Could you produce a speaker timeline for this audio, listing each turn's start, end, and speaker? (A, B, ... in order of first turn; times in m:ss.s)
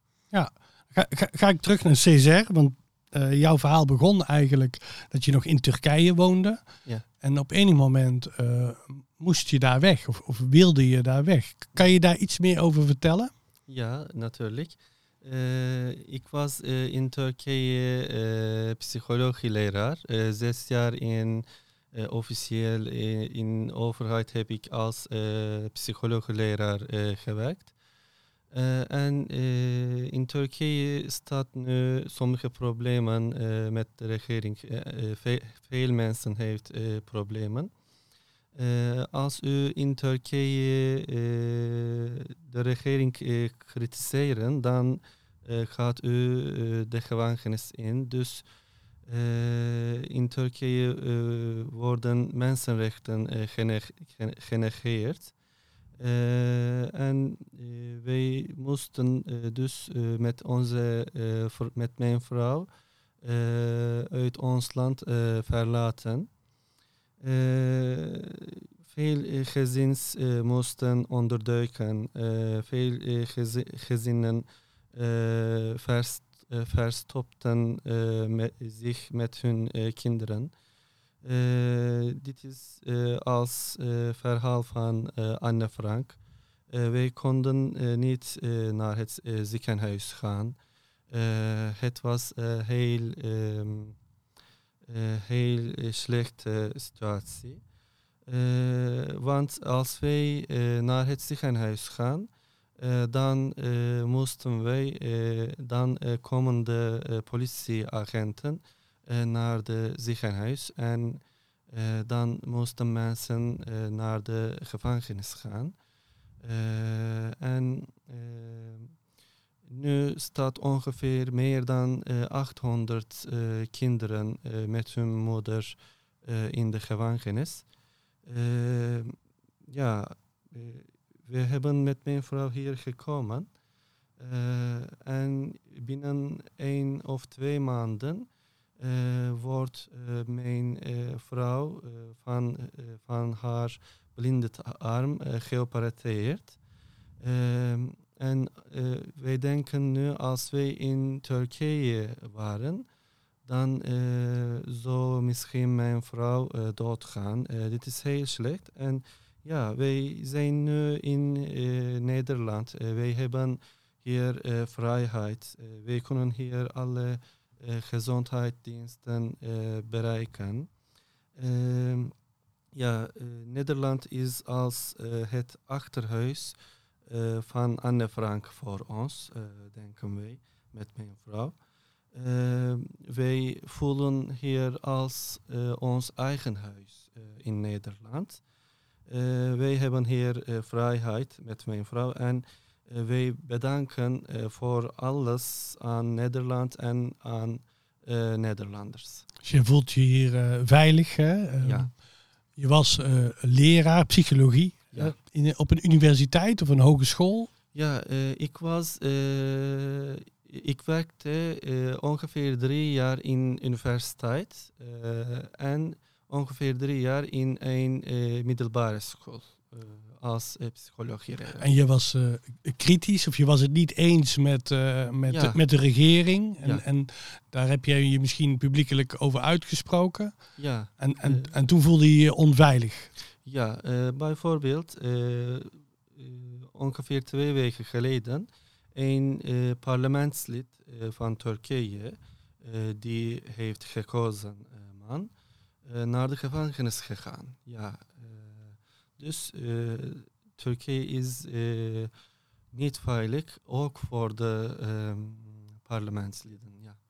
0:00.3-0:06.6 A
0:07.2-0:13.3 A
0:13.7-0:27.7 B
0:28.5-0:37.7 B
0:38.6-0:48.4 B
0:49.1-0:55.3 B
0:56.0-1:02.7 B
1:03.2-1:06.3 B
1:07.2-1:20.5 B
1:21.2-1:26.2 B
1:26.7-1:30.6 B
1:31.1-1:34.0 B
1:34.9-1:37.6 B
1:38.3-1:55.7 B
1:56.4-1:58.9 B
1:59.7-2:07.6 B
2:08.3-2:09.2 B
2:09.7-2:13.5 B
2:14.2-2:18.3 B
2:18.8-2:26.6 B
2:27.2-2:32.8 B
2:33.5-2:50.7 B
2:51.4-2:52.1 B
2:52.7-2:56.6 B
2:57.1-3:01.5 B
3:02.1-3:08.4 B
3:09.1-3:19.3 B
3:19.4-3:21.9 A
3:21.6-3:21.9 B
3:22.6-3:27.5 A
3:27.7-3:41.7 B
3:41.6-3:50.4 A
3:45.3-3:45.6 B
3:50.6-3:51.5 B
3:51.0-3:53.1 A
3:53.5-4:05.3 B
4:05.8-4:12.1 B
4:12.7-4:17.0 B